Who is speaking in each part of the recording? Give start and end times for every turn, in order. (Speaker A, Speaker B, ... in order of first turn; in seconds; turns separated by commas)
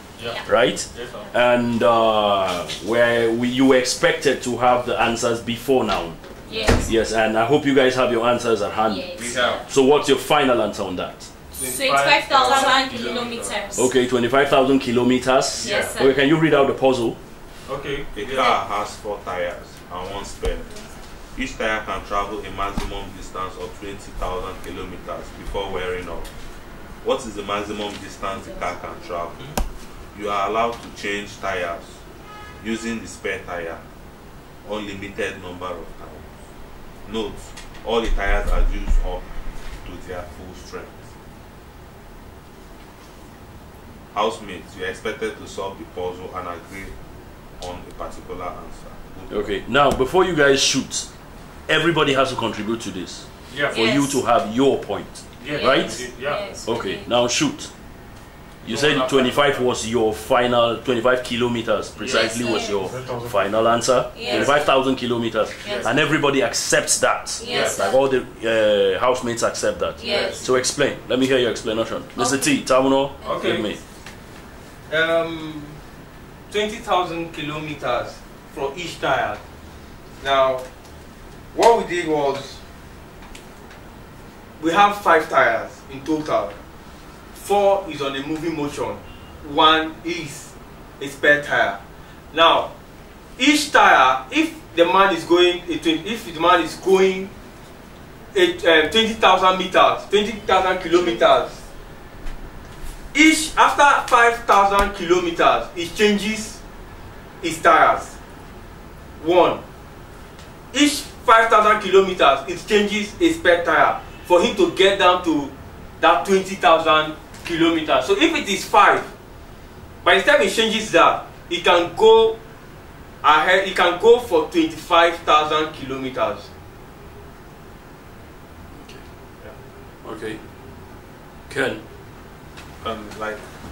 Speaker A: 0.4-6.2, Speaker B: 0.9-1.3, Speaker C: 6.5-7.0, Speaker A: 6.8-11.3, Speaker C: 8.8-9.6, Speaker B: 9.1-9.6, Speaker C: 11.6-13.9, Speaker B: 11.8-13.7, Speaker D: 11.9-12.4, Speaker A: 13.7-17.2, Speaker C: 15.6-16.2, Speaker B: 15.6-15.9, Speaker B: 17.7-18.5, Speaker E: 18.1-20.7, Speaker E: 21.3-26.3, Speaker E: 27.0-29.4, Speaker E: 30.1-32.0, Speaker E: 32.6-33.8, Speaker E: 34.6-36.3, Speaker E: 37.0-39.3, Speaker E: 39.8-41.0, Speaker E: 44.1-46.9, Speaker E: 47.6-49.5, Speaker A: 49.3-51.1, Speaker A: 51.6-57.7, Speaker C: 53.7-54.2, Speaker B: 55.4-56.5, Speaker C: 55.5-57.1, Speaker A: 58.6-73.8, Speaker B: 58.6-59.6, Speaker B: 62.0-62.2, Speaker C: 62.1-62.8, Speaker B: 62.9-63.6, Speaker C: 64.1-64.7, Speaker B: 65.6-65.9, Speaker C: 65.6-66.0, Speaker C: 67.4-68.0, Speaker B: 67.5-67.8, Speaker C: 70.0-70.5, Speaker C: 72.1-72.6, Speaker D: 73.2-73.7, Speaker D: 74.9-75.8, Speaker D: 76.5-79.4, Speaker D: 80.2-80.6, Speaker D: 81.5-82.6, Speaker D: 84.6-86.6, Speaker D: 87.3-91.8, Speaker D: 92.3-92.7, Speaker D: 93.4-97.3, Speaker D: 98.3-101.6, Speaker D: 103.1-106.6, Speaker D: 107.4-108.1, Speaker D: 109.2-109.6, Speaker D: 110.7-119.1, Speaker D: 120.0-122.4, Speaker D: 123.2-126.5, Speaker A: 128.7-129.2, Speaker A: 130.0-130.5, Speaker A: 131.5-131.8, Speaker E: 132.8-133.5